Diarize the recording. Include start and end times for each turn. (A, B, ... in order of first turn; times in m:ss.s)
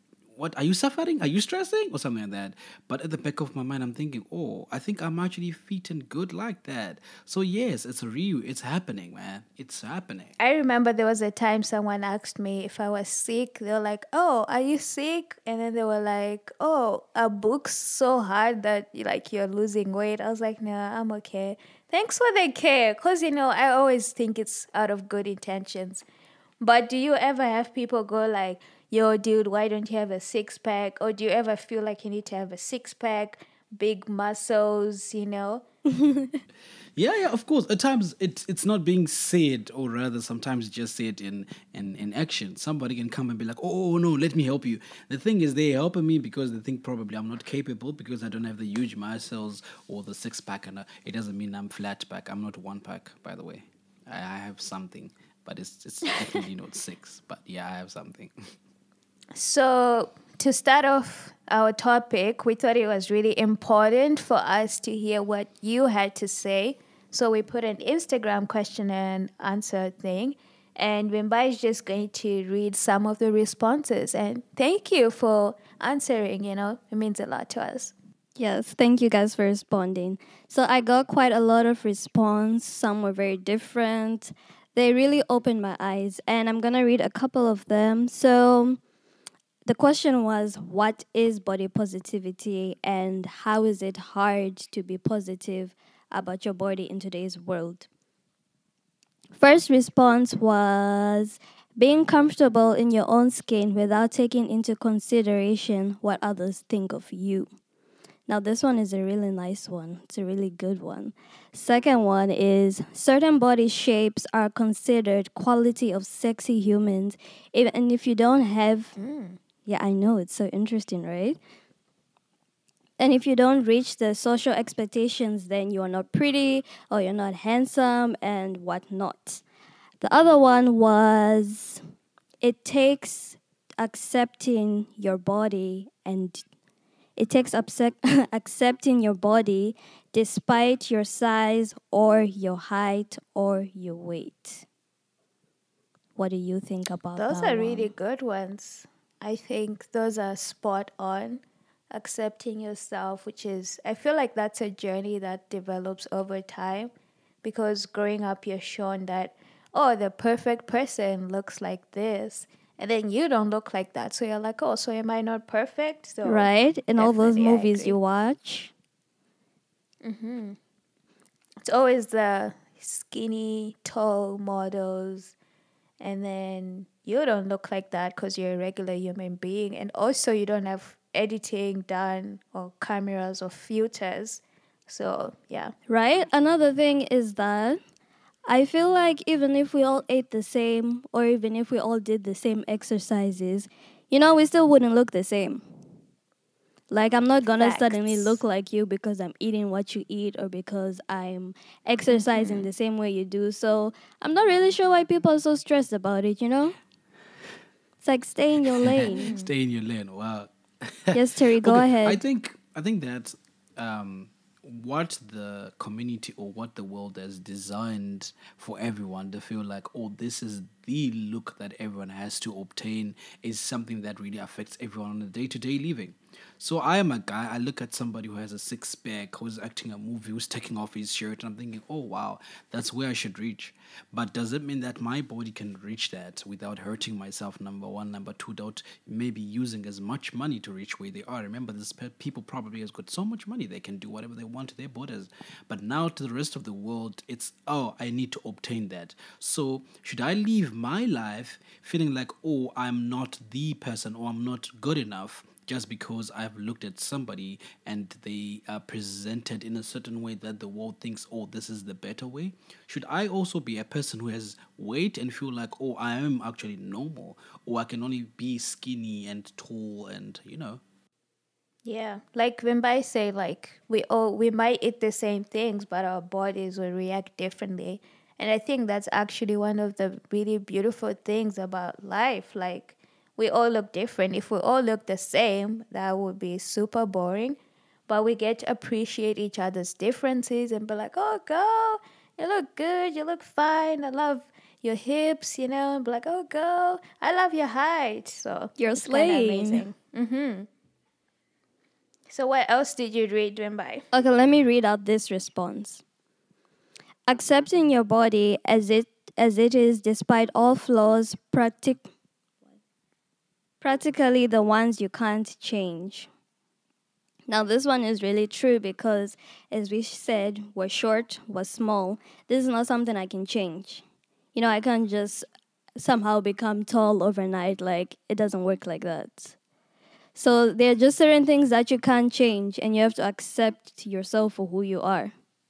0:00.4-0:10.4 A
0:10.4-0:26.0 B
0:26.6-0:35.6 B
0:35.9-0:36.4 C
0:37.0-0:58.3 A
0:59.4-1:17.9 B
1:18.4-1:28.8 C
1:29.7-1:37.9 C
1:39.3-1:47.5 C
1:48.3-1:58.9 C
1:59.0-1:59.4 B
1:59.7-2:01.4 C
2:03.0-2:09.4 C
2:10.0-2:11.8 C
2:12.4-2:16.4 C
2:17.2-2:24.6 C
2:26.2-2:27.9 C
2:27.2-2:36.9 B
2:37.4-2:48.0 B
2:46.2-2:48.7 C
2:50.0-2:50.6 B
2:51.6-2:55.3 B
2:56.0-3:05.7 B
3:05.9-3:07.8 C
3:08.5-3:15.6 C
3:16.9-3:26.8 C
3:17.5-3:18.4 B
3:22.1-3:22.7 B
3:28.0-3:29.4 C
3:28.8-4:30.8 A
3:29.0-3:29.5 B
3:31.1-3:32.2 C
4:31.8-4:47.6 B
4:48.1-5:00.7 B
4:58.8-4:59.9 C
5:02.3-5:04.0 B
5:04.1-5:06.0 C
5:07.3-5:12.0 C
5:13.8-5:16.3 C
5:17.5-5:24.0 C
5:24.6-5:29.6 C
5:30.4-5:35.3 C